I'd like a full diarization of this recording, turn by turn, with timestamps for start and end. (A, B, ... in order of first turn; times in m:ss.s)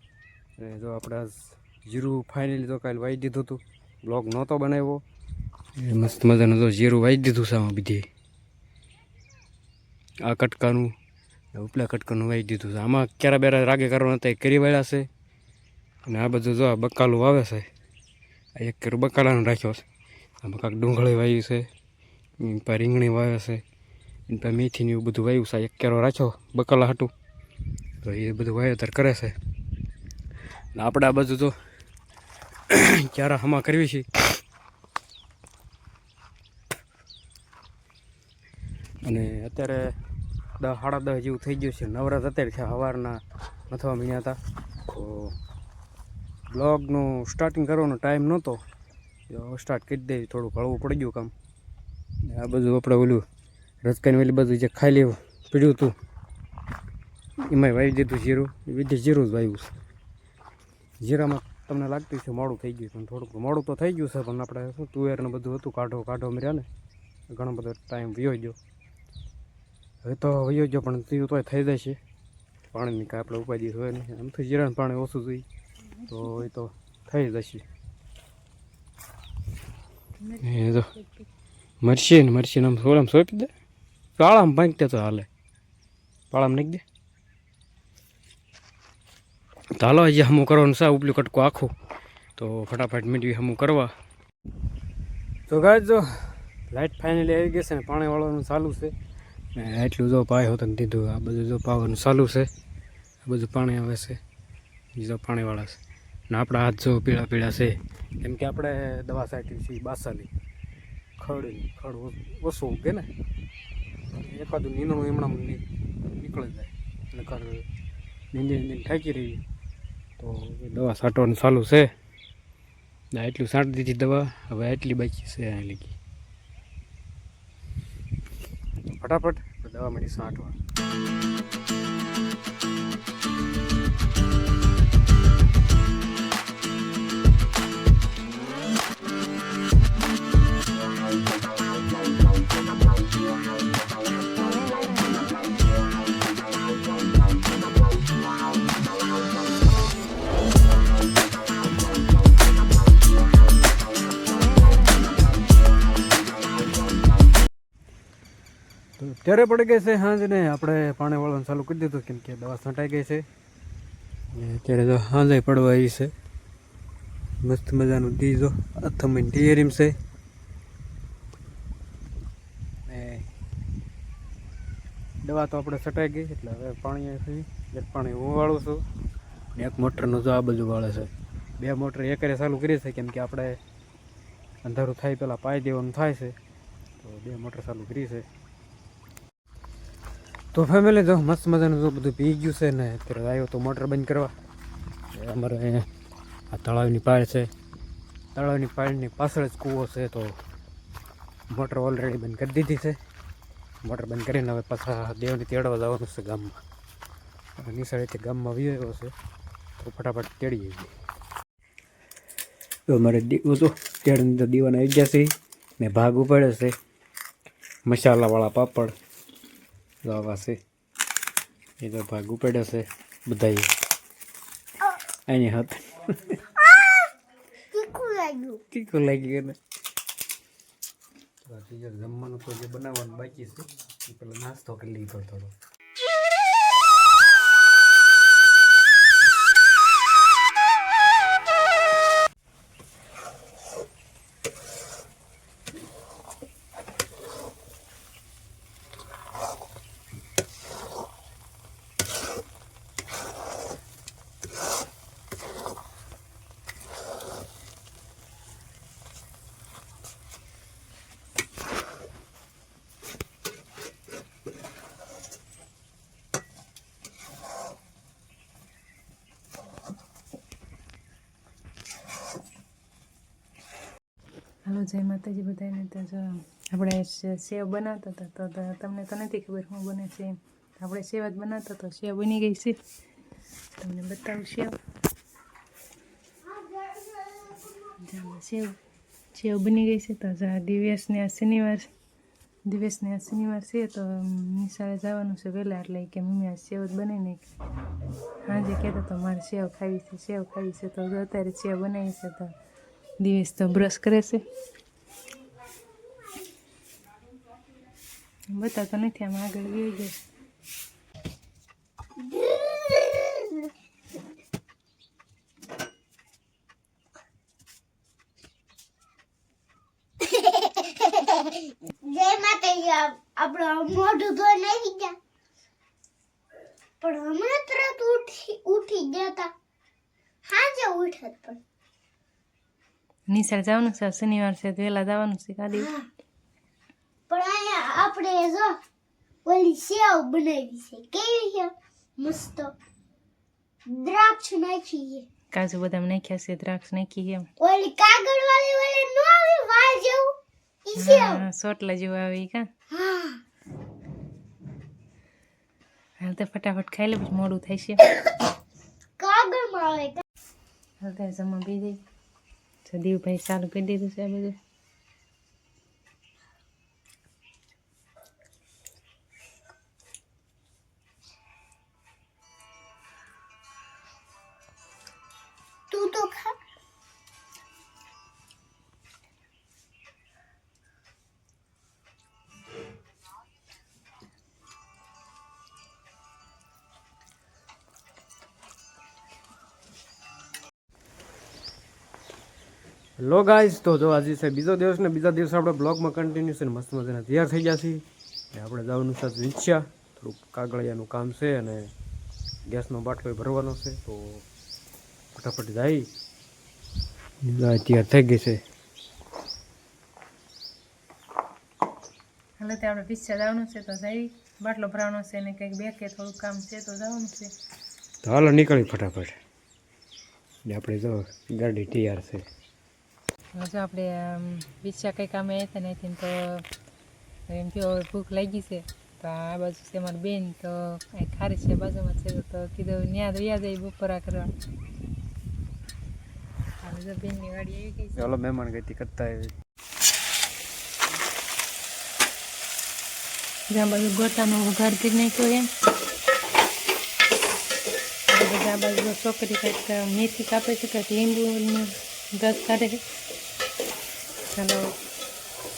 0:00.6-0:05.0 A
0:05.8-0:08.1 A
0:10.2-0:10.9 A
0:11.5-0:15.1 A
0:16.1-0:17.7 A
0:18.6-0:19.8 A
0:20.4-0:21.7 A
0:22.4-0:23.6 A
0:24.3-0:27.1 A
0:28.0-0:29.4 A
0:30.8-0:31.5 A
0:32.7-0:34.1 A
0:39.0-0:39.9 A
0:40.6-0:45.4 A
0:46.5-0:48.6 A
0:49.3-0:51.3 A
0:52.3-0:53.2 A
0:53.8-0:55.9 A
0:57.5-0:59.8 A
1:01.0-1:06.7 A
1:07.3-1:08.6 A
1:10.0-1:12.0 A
1:12.7-1:15.4 A
1:16.1-1:17.6 A
1:20.2-1:21.2 B
1:20.4-1:20.9 A
1:21.8-1:23.5 A
1:24.2-1:25.3 A
1:26.3-1:26.8 A
1:29.8-1:31.7 A
1:32.4-1:33.9 A
1:35.5-1:38.9 A
1:39.6-1:42.5 A
1:43.2-1:44.2 A
1:45.0-1:50.3 A
1:51.2-1:53.1 A
1:54.1-1:57.6 A
1:58.3-1:59.4 A
2:00.2-2:01.9 A
2:03.1-2:06.0 A
2:09.0-2:10.6 A
2:39.0-2:43.2 A
2:44.3-2:46.1 A
2:47.4-2:50.0 A
2:52.9-2:53.2 A
2:55.2-2:58.8 A
2:59.6-3:03.6 A
3:04.6-3:06.4 A
3:07.0-3:08.3 A
3:10.5-3:14.3 A
3:15.1-3:15.9 A
3:16.5-3:17.5 A
3:18.4-3:20.4 A
3:21.5-3:23.0 A
3:23.8-3:26.6 A
3:27.6-3:29.1 A
3:29.8-3:30.9 A
3:32.9-3:36.8 A
3:37.9-3:38.9 A
3:40.0-3:40.6 A
3:41.8-3:43.7 A
3:45.3-3:46.4 A
3:47.7-3:48.6 C
3:48.7-3:49.6 A
3:51.4-3:55.5 A
4:34.7-4:42.8 B
4:43.8-4:44.8 B
4:46.6-4:47.6 C
4:48.0-4:48.8 B
4:49.3-4:51.9 B
4:52.7-4:57.5 B
4:58.4-5:02.5 B
5:03.2-5:04.4 B
5:08.5-5:10.2 B
5:12.2-5:13.7 C
5:20.2-5:25.2 C
5:27.0-5:29.5 C
5:30.4-5:31.6 C
5:33.3-5:35.9 B
5:35.8-5:36.1 C
5:37.3-5:38.8 C
5:39.4-5:42.8 C
5:43.9-5:45.3 C
5:45.5-5:47.5 B
5:47.6-5:51.4 C
5:51.0-5:52.7 B
5:52.9-5:53.4 C
5:56.2-5:58.1 B
5:59.2-6:00.2 C
6:01.0-6:02.0 B
6:02.8-6:04.6 B
6:15.9-6:16.6 C
6:33.2-6:41.9 A
6:42.7-6:44.5 A
6:45.3-6:46.1 A
6:47.4-6:48.6 A
6:52.6-6:57.5 B
6:58.2-6:59.4 A
7:00.6-7:02.4 A
7:03.5-7:06.6 B
7:07.5-7:14.5 B
7:16.8-7:18.3 B
7:18.2-7:19.5 A
7:23.7-7:25.7 B
7:28.3-7:33.0 B
7:34.5-7:34.9 B